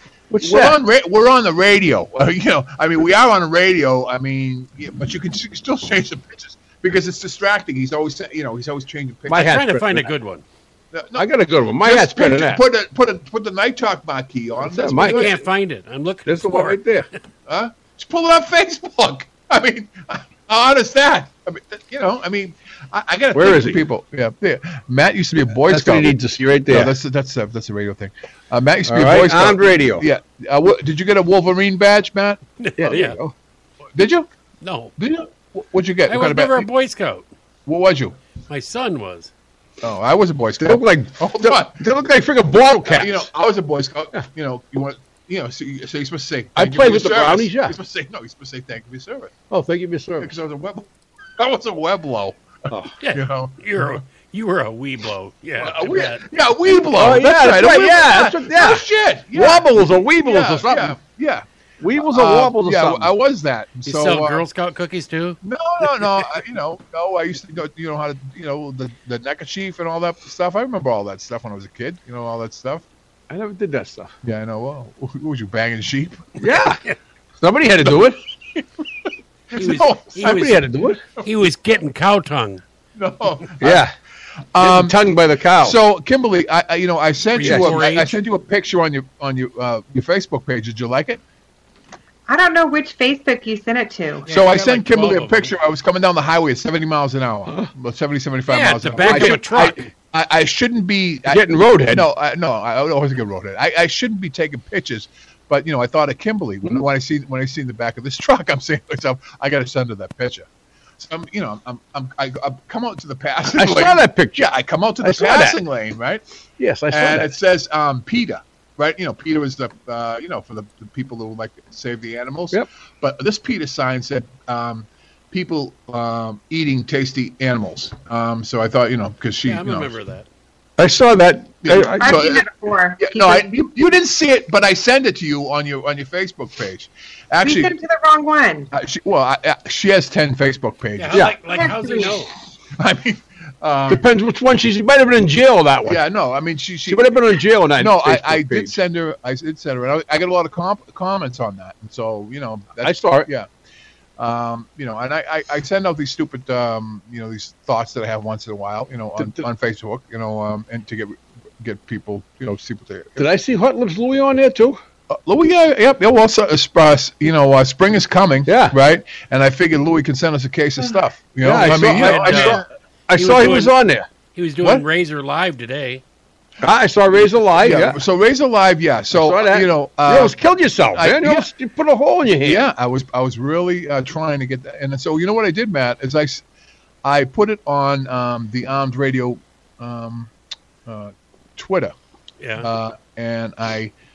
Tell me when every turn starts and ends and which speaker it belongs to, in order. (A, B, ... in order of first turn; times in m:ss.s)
0:00.3-0:00.8 A
0:00.4-0:09.5 B
0:09.3-0:10.1 A
0:09.3-0:10.4 C
0:10.9-0:11.3 B
0:11.2-0:12.6 A
0:11.8-0:15.3 B
0:14.6-0:15.3 A
0:15.0-0:16.8 C
0:16.2-0:17.1 A
0:17.5-0:32.4 B
0:23.3-0:23.8 A
0:25.7-0:26.9 A
0:28.9-0:30.0 A
0:32.6-0:33.2 C
0:32.8-0:33.3 A
0:33.9-0:34.3 B
0:34.6-0:34.9 C
0:35.0-0:36.7 B
0:36.1-0:37.3 C
0:37.6-0:38.2 B
0:38.5-0:39.3 C
0:39.8-0:41.8 B
0:40.6-0:43.3 A
0:42.8-0:49.3 B
0:46.6-0:47.8 A
0:49.5-0:50.3 A
0:50.2-0:54.0 B
0:53.0-0:56.2 C
0:55.6-0:59.7 B
0:56.9-1:01.0 A
1:00.2-1:04.4 B
1:01.8-1:03.1 A
1:03.8-1:06.3 C
1:05.4-1:12.8 B
1:13.3-1:14.1 A
1:14.2-1:16.4 B
1:16.4-1:16.8 A
1:17.4-1:18.2 A
1:18.5-1:20.4 B
1:19.5-1:22.6 C
1:20.2-1:21.0 A
1:21.2-1:21.5 B
1:23.0-1:23.8 B
1:23.6-1:23.9 A
1:24.5-1:25.0 B
1:24.6-1:25.8 A
1:25.6-1:31.2 B
1:27.4-1:28.2 C
1:27.4-1:27.8 A
1:32.3-1:34.2 D
1:34.3-1:35.5 C
1:34.3-1:50.5 B
1:38.5-1:39.9 C
1:39.0-1:39.4 A
1:41.3-1:42.0 A
1:51.0-1:56.2 B
1:53.6-1:54.5 A
1:55.0-1:55.6 A
1:56.6-1:57.3 A
1:56.9-2:10.0 B
2:09.4-2:10.2 C
2:10.8-2:12.3 A
2:11.6-2:12.4 B
2:12.0-2:13.5 D
2:13.0-2:17.7 B
2:17.4-2:18.7 D
2:18.7-2:22.2 B
2:21.0-2:22.3 C
2:21.5-2:22.1 D
2:22.7-2:24.0 B
2:23.9-2:26.0 A
2:25.8-2:27.2 B
2:26.8-2:28.8 A
2:27.7-2:33.5 B
2:32.8-2:33.3 A
2:34.2-2:43.3 B
2:39.2-2:39.4 A
2:43.2-2:44.8 A
2:45.1-2:52.6 B
2:48.4-2:48.8 A
2:51.4-2:54.1 A
2:51.7-2:52.6 C
2:53.1-2:53.7 C
2:54.3-2:56.0 C
2:56.6-2:58.0 A
2:57.6-3:00.4 B
2:59.1-3:02.6 A
3:00.9-3:01.5 B
3:02.4-3:06.4 B
3:07.0-3:10.3 B
3:10.8-3:11.9 B
3:12.4-3:12.7 C
3:12.6-3:13.9 B